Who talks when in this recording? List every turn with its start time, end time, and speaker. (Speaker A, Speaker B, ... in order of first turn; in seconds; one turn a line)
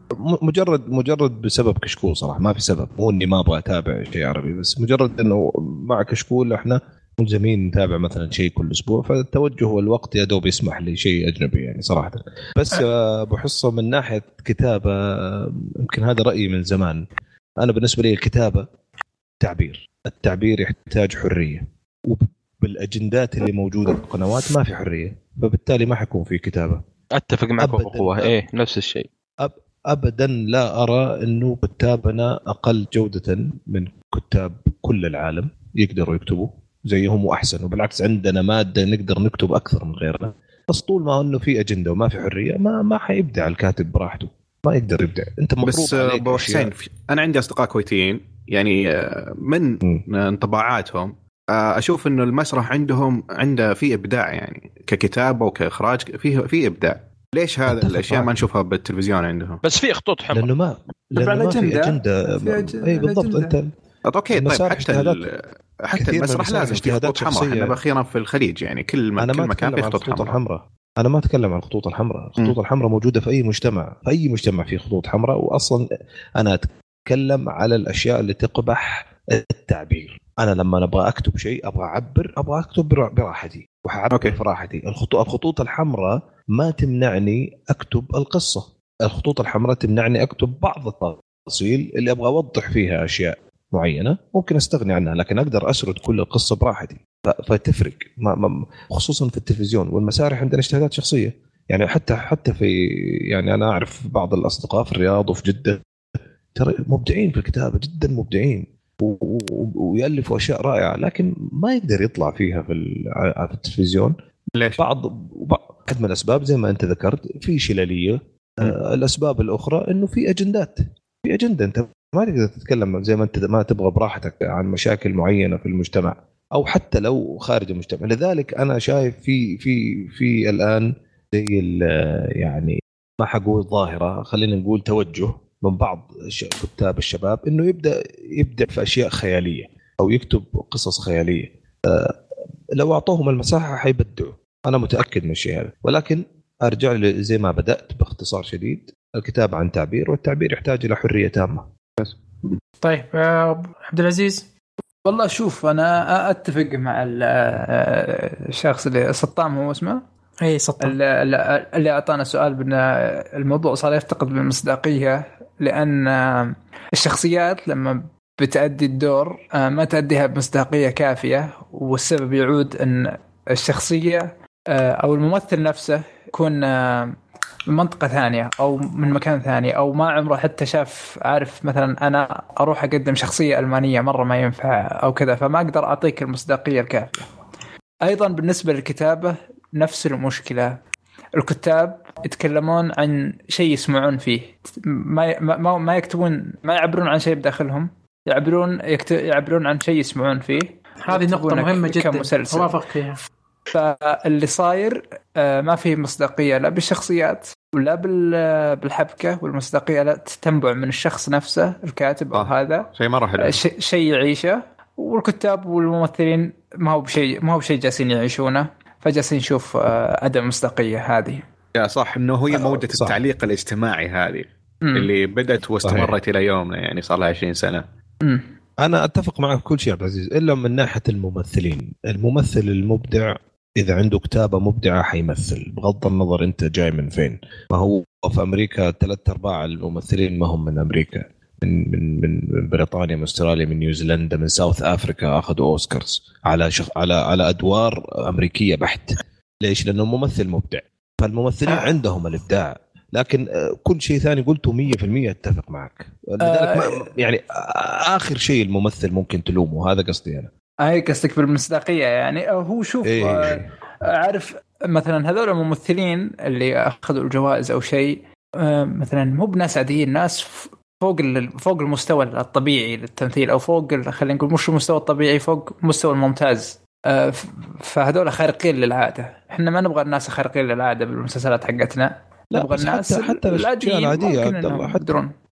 Speaker A: 0.2-17.0
Speaker A: 17.6-18.7
Speaker A: 19.4-26.8
Speaker B: 27.1-29.1
Speaker A: 27.6-28.4
Speaker A: 29.4-46.7
Speaker C: 45.7-59.6
Speaker A: 57.7-58.3
Speaker B: 59.6-60.5
Speaker A: 60.3-63.7
Speaker D: 61.2-63.6
Speaker C: 64.0-70.4
Speaker A: 64.3-65.2
Speaker A: 65.9-67.8
Speaker A: 69.2-75.8
Speaker A: 76.4-105.8
Speaker C: 84.1-84.4
Speaker A: 106.5-114.1
Speaker C: 114.5-114.8
Speaker A: 114.8-142.2
Speaker A: 142.8-151.7
Speaker C: 152.0-152.6
Speaker E: 152.8-154.5
Speaker D: 155.1-160.0
Speaker E: 160.4-161.0
Speaker D: 160.8-177.2
Speaker D: 177.7-187.3
Speaker D: 188.1-190.7
Speaker D: 191.4-202.7
Speaker E: 201.1-203.2
Speaker D: 203.7-212.9
Speaker C: 212.3-213.6
Speaker D: 213.4-221.4
Speaker C: 221.8-227.8
Speaker A: 222.5-223.2
Speaker D: 224.8-225.1
Speaker A: 225.8-226.1
Speaker A: 228.8-260.5
Speaker D: 256.4-257.0
Speaker D: 260.9-285.3
Speaker A: 263.0-263.7
Speaker A: 282.5-285.2